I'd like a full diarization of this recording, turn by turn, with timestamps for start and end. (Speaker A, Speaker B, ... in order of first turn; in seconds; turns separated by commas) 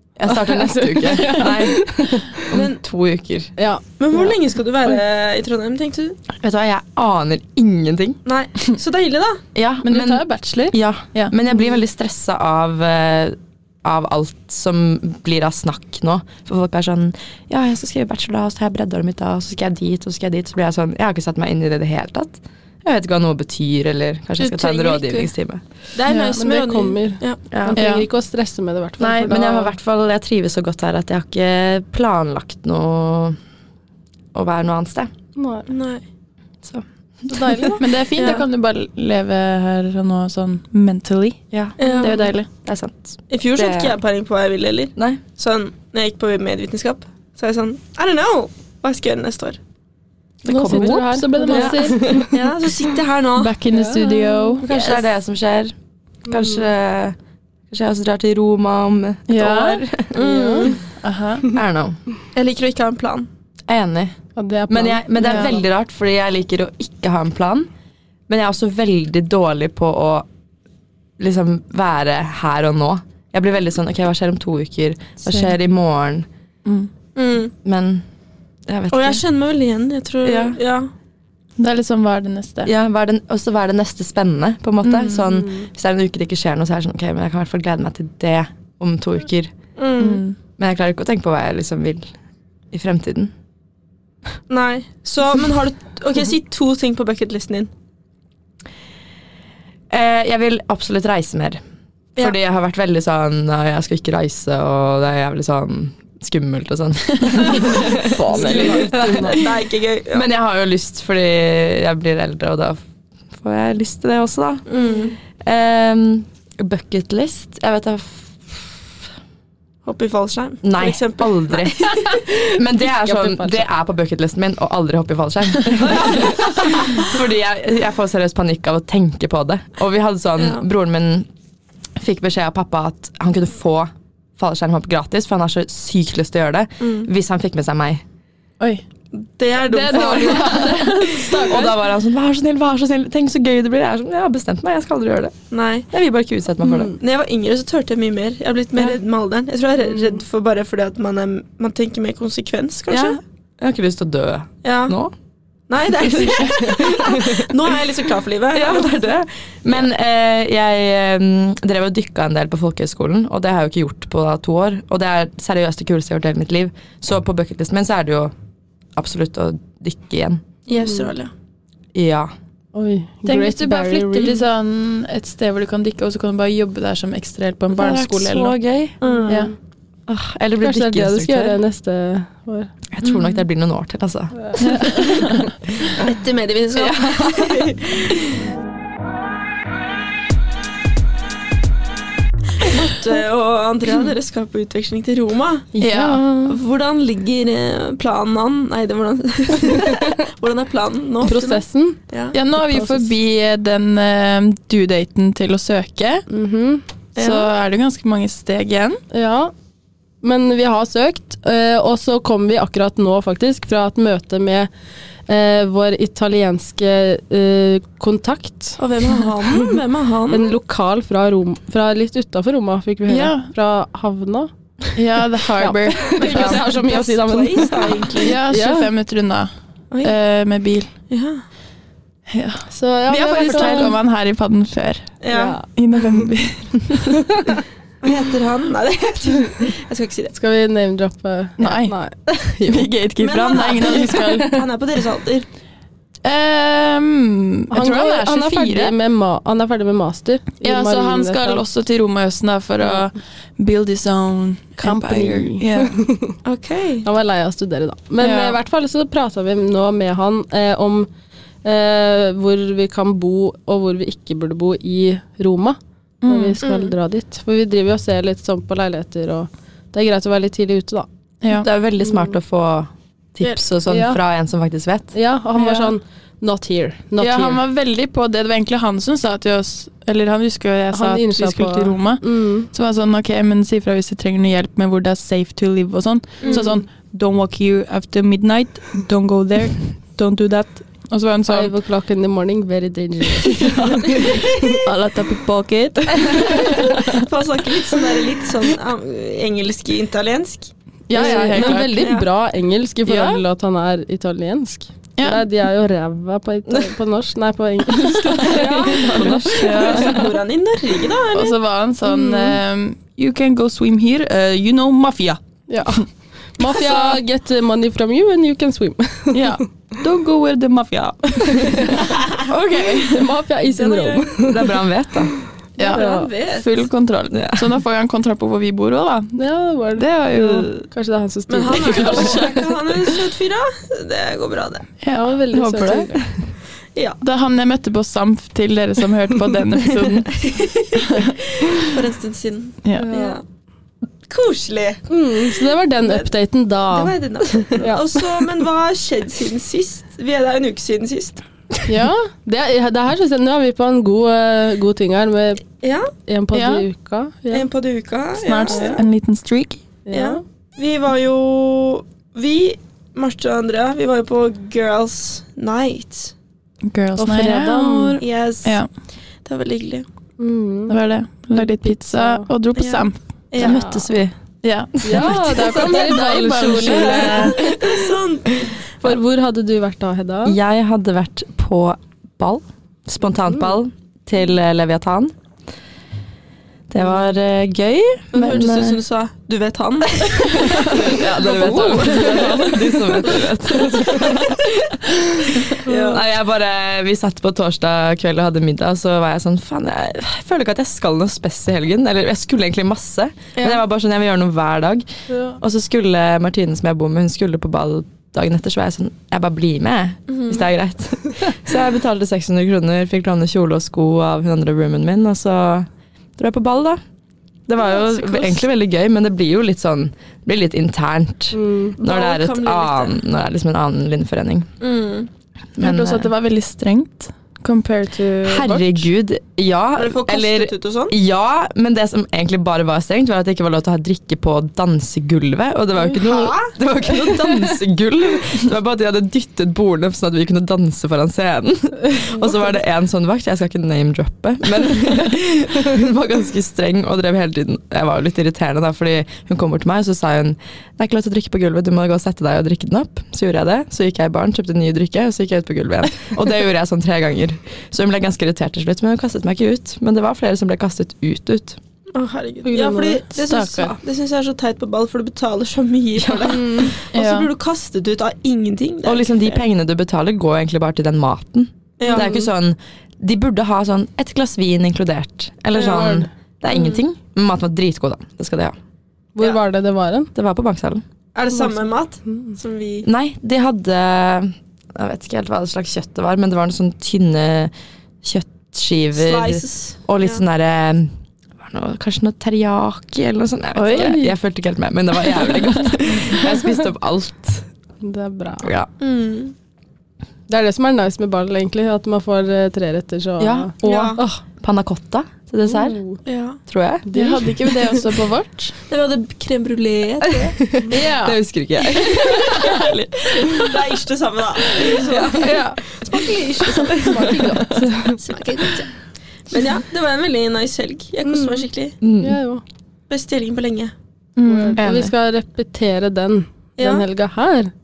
Speaker A: 0.2-3.5, Speaker B: 0.4-2.2, Speaker C: 2.5-2.8, Speaker B: 3.6-4.3, Speaker C: 4.0-6.2, Speaker A: 6.3-8.2, Speaker C: 8.2-9.4, Speaker A: 9.5-25.6, Speaker D: 9.8-11.3, Speaker C: 24.4-25.3, Speaker C: 25.9-27.4, Speaker D: 26.1-26.4, Speaker B: 26.4-29.7, Speaker A: 27.5-27.8, Speaker D: 27.8-28.1, Speaker A: 29.0-33.4, Speaker A: 34.3-35.1, Speaker B: 35.4-35.7, Speaker C: 35.7-36.0, Speaker A: 36.6-37.7, Speaker B: 37.3-38.3, Speaker D: 37.8-42.5, Speaker C: 38.2-38.5, Speaker A: 41.5-42.1, Speaker C: 41.8-42.2, Speaker A: 42.6-44.0, Speaker C: 43.3-49.6, Speaker A: 45.0-45.2, Speaker A: 50.4-52.3, Speaker B: 50.5-52.3, Speaker D: 50.6-52.0, Speaker C: 52.3-53.6, Speaker D: 53.4-54.6, Speaker B: 53.7-54.5, Speaker C: 54.6-55.1, Speaker A: 54.6-55.7, Speaker A: 56.3-57.2, Speaker B: 56.3-56.6, Speaker A: 57.7-60.2, Speaker D: 59.3-59.8, Speaker B: 60.1-60.8, Speaker C: 60.1-60.8, Speaker D: 61.0-61.5, Speaker A: 61.5-62.0, Speaker C: 62.3-63.3, Speaker A: 63.7-64.2, Speaker B: 64.4-65.5, Speaker A: 64.7-67.7, Speaker D: 65.2-65.5, Speaker A: 68.3-70.3, Speaker A: 71.2-76.3, Speaker C: 77.2-77.5, Speaker A: 77.6-78.0, Speaker A: 78.7-79.2, Speaker C: 78.9-80.9, Speaker A: 80.2-80.6, Speaker D: 81.6-82.7, Speaker A: 82.7-89.5, Speaker D: 84.8-85.3, Speaker C: 89.8-90.2, Speaker D: 90.0-90.4, Speaker A: 90.6-92.1, Speaker A: 92.7-93.3, Speaker C: 94.5-97.7, Speaker A: 99.9-101.6, Speaker A: 102.2-109.5, Speaker B: 108.0-109.4, Speaker C: 108.4-110.3, Speaker A: 110.1-112.8, Speaker A: 113.3-114.7, Speaker C: 114.7-115.2, Speaker A: 115.4-119.0, Speaker C: 119.8-122.2, Speaker A: 120.6-131.3, Speaker B: 122.8-123.6, Speaker C: 125.8-127.0, Speaker C: 130.4-130.6, Speaker A: 132.0-138.0, Speaker C: 136.8-137.1, Speaker C: 139.1-141.4, Speaker D: 139.6-141.8, Speaker A: 139.9-147.0, Speaker C: 145.5-145.9, Speaker B: 146.6-146.9, Speaker C: 147.0-153.2, Speaker B: 149.9-150.2, Speaker A: 152.9-155.1, Speaker C: 154.6-154.9, Speaker C: 155.7-159.0, Speaker A: 156.0-157.5, Speaker A: 158.5-168.3, Speaker A: 169.0-170.4, Speaker C: 170.7-171.3, Speaker B: 170.7-171.1, Speaker A: 171.9-172.3, Speaker B: 172.7-174.4, Speaker D: 173.3-178.6, Speaker A: 177.7-179.0, Speaker C: 179.0-179.5, Speaker B: 179.0-179.5, Speaker A: 180.1-181.6, Speaker B: 180.6-182.7, Speaker A: 182.9-185.3, Speaker B: 184.4-185.0, Speaker C: 185.9-188.2, Speaker A: 186.7-187.7, Speaker C: 192.6-195.7, Speaker B: 195.7-196.6, Speaker D: 195.8-196.4, Speaker C: 196.4-202.4, Speaker B: 201.2-202.0, Speaker D: 202.3-206.3, Speaker B: 202.6-203.1, Speaker B: 206.3-206.8, Speaker C: 207.2-207.5, Speaker D: 207.2-209.0, Speaker B: 209.1-209.5, Speaker B: 210.2-214.7, Speaker B: 215.3-219.8, Speaker C: 218.8-220.5, Speaker B: 220.3-224.5, Speaker D: 223.1-223.5, Speaker D: 225.0-226.6, Speaker B: 225.6-228.9, Speaker C: 226.1-228.4, Speaker D: 228.2-229.5, Speaker D: 230.0-230.9, Speaker C: 231.1-231.4, Speaker D: 232.3-235.1, Speaker B: 232.7-234.0, Speaker C: 233.5-233.9, Speaker C: 235.2-235.6, Speaker B: 235.3-236.3, Speaker D: 235.7-237.3, Speaker C: 238.0-240.3, Speaker B: 240.3-242.2, Speaker D: 241.6-241.9, Speaker D: 242.7-244.6, Speaker C: 243.2-245.5, Speaker D: 246.2-248.9, Speaker B: 247.7-251.6, Speaker D: 250.6-256.0, Speaker B: 254.8-256.4, Speaker C: 256.4-257.1, Speaker B: 257.0-261.1, Speaker D: 258.2-258.6, Speaker B: 261.6-271.1, Speaker D: 266.2-266.6, Speaker C: 266.6-266.9, Speaker D: 271.4-271.7, Speaker A: 271.5-275.1, Speaker B: 273.9-274.2, Speaker B: 275.1-277.6, Speaker D: 275.6-275.9, Speaker D: 277.2-291.7, Speaker B: 280.9-282.7, Speaker C: 286.4-286.7, Speaker B: 286.4-286.8, Speaker B: 291.5-294.8, Speaker D: 293.6-297.2, Speaker C: 294.1-294.7, Speaker C: 296.3-302.3, Speaker D: 301.1-302.1, Speaker B: 301.1-310.2, Speaker D: 303.1-303.4, Speaker D: 305.2-305.4, Speaker D: 308.3-308.6, Speaker C: 308.4-311.6, Speaker A: 308.6-310.2, Speaker D: 309.1-310.3, Speaker D: 311.3-315.4, Speaker B: 312.1-312.6, Speaker B: 315.7-319.6, Speaker D: 316.6-317.2, Speaker D: 319.3-323.3, Speaker B: 322.8-324.6, Speaker C: 323.8-324.6, Speaker A: 324.5-325.3, Speaker D: 325.8-329.4, Speaker C: 325.8-326.7, Speaker B: 325.8-326.3, Speaker A: 327.3-327.6, Speaker B: 329.4-332.6, Speaker D: 330.0-330.8, Speaker C: 331.5-334.9, Speaker D: 331.7-332.6, Speaker D: 335.0-335.4, Speaker B: 335.1-336.3, Speaker A: 335.5-336.5, Speaker C: 336.9-337.2, Speaker D: 337.2-341.9, Speaker C: 340.3-343.4, Speaker B: 343.0-343.4, Speaker C: 344.3-346.3, Speaker B: 345.1-348.4, Speaker C: 346.9-351.4, Speaker B: 351.9-355.6, Speaker C: 355.8-356.1, Speaker B: 356.3-357.7, Speaker D: 356.5-356.9, Speaker C: 357.5-359.0, Speaker D: 358.4-359.8, Speaker B: 358.7-359.0, Speaker B: 360.1-360.4, Speaker C: 360.1-366.3, Speaker D: 366.9-368.1, Speaker B: 367.2-368.2, Speaker C: 367.9-368.8, Speaker C: 369.4-370.1, Speaker B: 370.4-371.0, Speaker D: 370.9-373.2, Speaker B: 371.5-372.5, Speaker C: 372.8-373.9, Speaker A: 373.6-374.4, Speaker B: 373.6-374.0, Speaker D: 374.6-377.7, Speaker B: 375.0-377.9, Speaker C: 375.5-378.8, Speaker B: 379.0-380.6, Speaker A: 380.4-385.3, Speaker A: 386.9-389.0, Speaker C: 388.3-392.8, Speaker D: 390.6-393.2, Speaker A: 390.7-405.1, Speaker C: 393.3-394.4, Speaker C: 395.8-396.2, Speaker B: 395.9-396.1, Speaker C: 403.6-403.8, Speaker B: 405.3-405.6, Speaker A: 405.6-417.0, Speaker C: 410.3-410.7, Speaker A: 417.7-424.7, Speaker C: 417.9-418.6, Speaker B: 421.5-422.0, Speaker C: 422.0-423.2, Speaker C: 424.8-425.3, Speaker A: 425.8-426.3, Speaker D: 425.8-429.0, Speaker A: 428.4-461.8, Speaker C: 430.0-431.1, Speaker C: 436.0-436.8, Speaker C: 462.1-469.6, Speaker B: 462.6-463.2, Speaker D: 463.4-464.0, Speaker A: 466.2-466.9, Speaker B: 466.5-467.0, Speaker D: 467.1-467.5, Speaker A: 469.1-478.8, Speaker C: 472.0-472.5, Speaker B: 472.0-472.3, Speaker C: 475.8-477.0, Speaker B: 475.8-476.3, Speaker B: 479.4-480.3, Speaker A: 480.4-481.0, Speaker C: 481.4-483.1, Speaker B: 481.5-482.6, Speaker A: 483.0-487.7, Speaker A: 488.2-497.7, Speaker C: 489.1-490.4, Speaker B: 493.8-494.3, Speaker B: 498.0-498.7, Speaker A: 498.6-498.9, Speaker C: 499.0-499.5, Speaker B: 500.5-504.4, Speaker A: 503.4-506.0, Speaker C: 503.8-504.2, Speaker B: 505.7-506.2, Speaker C: 506.2-506.6, Speaker A: 506.7-507.1, Speaker B: 507.1-508.0, Speaker D: 507.1-508.8, Speaker C: 508.9-510.6, Speaker A: 510.6-513.7, Speaker D: 510.9-511.4, Speaker C: 512.4-512.7, Speaker C: 513.3-517.4, Speaker A: 515.1-515.6, Speaker D: 515.2-515.8, Speaker B: 516.7-518.2, Speaker D: 517.3-518.2, Speaker C: 518.2-519.0, Speaker C: 519.5-522.0, Speaker B: 521.2-521.7, Speaker A: 522.0-522.4, Speaker B: 522.2-522.6, Speaker C: 523.1-523.9, Speaker D: 524.4-524.8, Speaker B: 524.4-527.7, Speaker A: 524.8-525.1, Speaker C: 526.8-527.0